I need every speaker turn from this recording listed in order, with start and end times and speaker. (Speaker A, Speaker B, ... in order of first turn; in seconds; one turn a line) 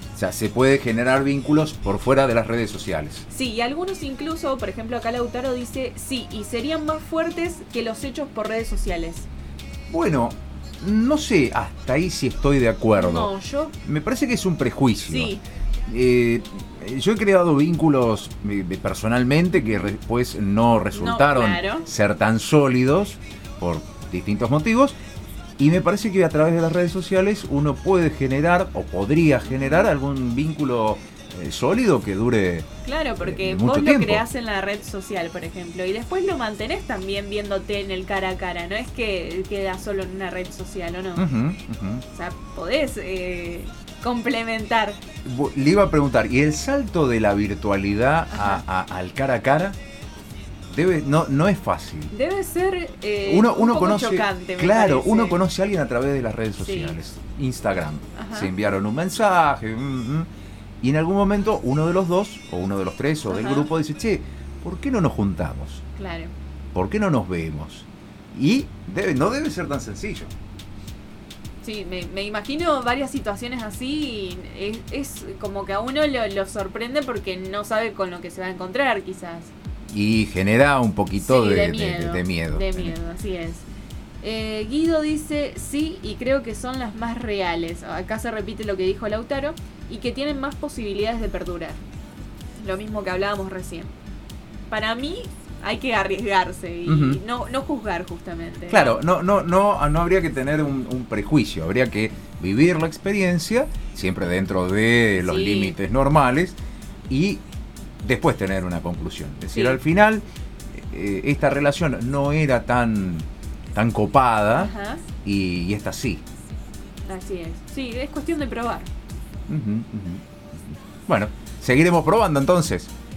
Speaker A: 0.2-3.3
Speaker B: 3.3-9.3
Speaker A: 9.9-13.3
Speaker B: 13.0-13.8
Speaker A: 13.8-15.3
Speaker B: 15.1-15.4
Speaker A: 15.9-24.9
Speaker B: 20.9-21.9
Speaker A: 25.6-32.7
Speaker B: 29.5-29.9
Speaker B: 32.9-41.2
Speaker A: 33.2-34.2
Speaker A: 41.2-42.0
Speaker B: 42.1-45.0
Speaker A: 45.2-49.8
Speaker B: 48.3-48.6
Speaker A: 50.7-52.1
Speaker B: 52.1-55.4
Speaker A: 53.3-60.3
Speaker B: 56.6-57.0
Speaker B: 58.2-58.5
Speaker A: 60.8-65.8
Speaker B: 63.3-63.7
Speaker B: 66.0-66.3
Speaker A: 66.7-70.3
Speaker B: 71.6-79.5
Speaker A: 79.9-83.0
Speaker B: 81.2-83.6
Speaker B: 84.2-91.8
Speaker B: 92.6-93.9
Speaker B: 94.7-99.0
Speaker A: 96.9-97.2
Speaker A: 98.7-106.6
Speaker B: 105.2-105.8
Speaker A: 107.1-107.4
Speaker A: 108.0-110.2
Speaker B: 109.5-109.8
Speaker A: 110.8-114.7
Speaker B: 114.5-115.0
Speaker A: 115.2-116.2
Speaker B: 117.1-118.9
Speaker A: 119.5-122.9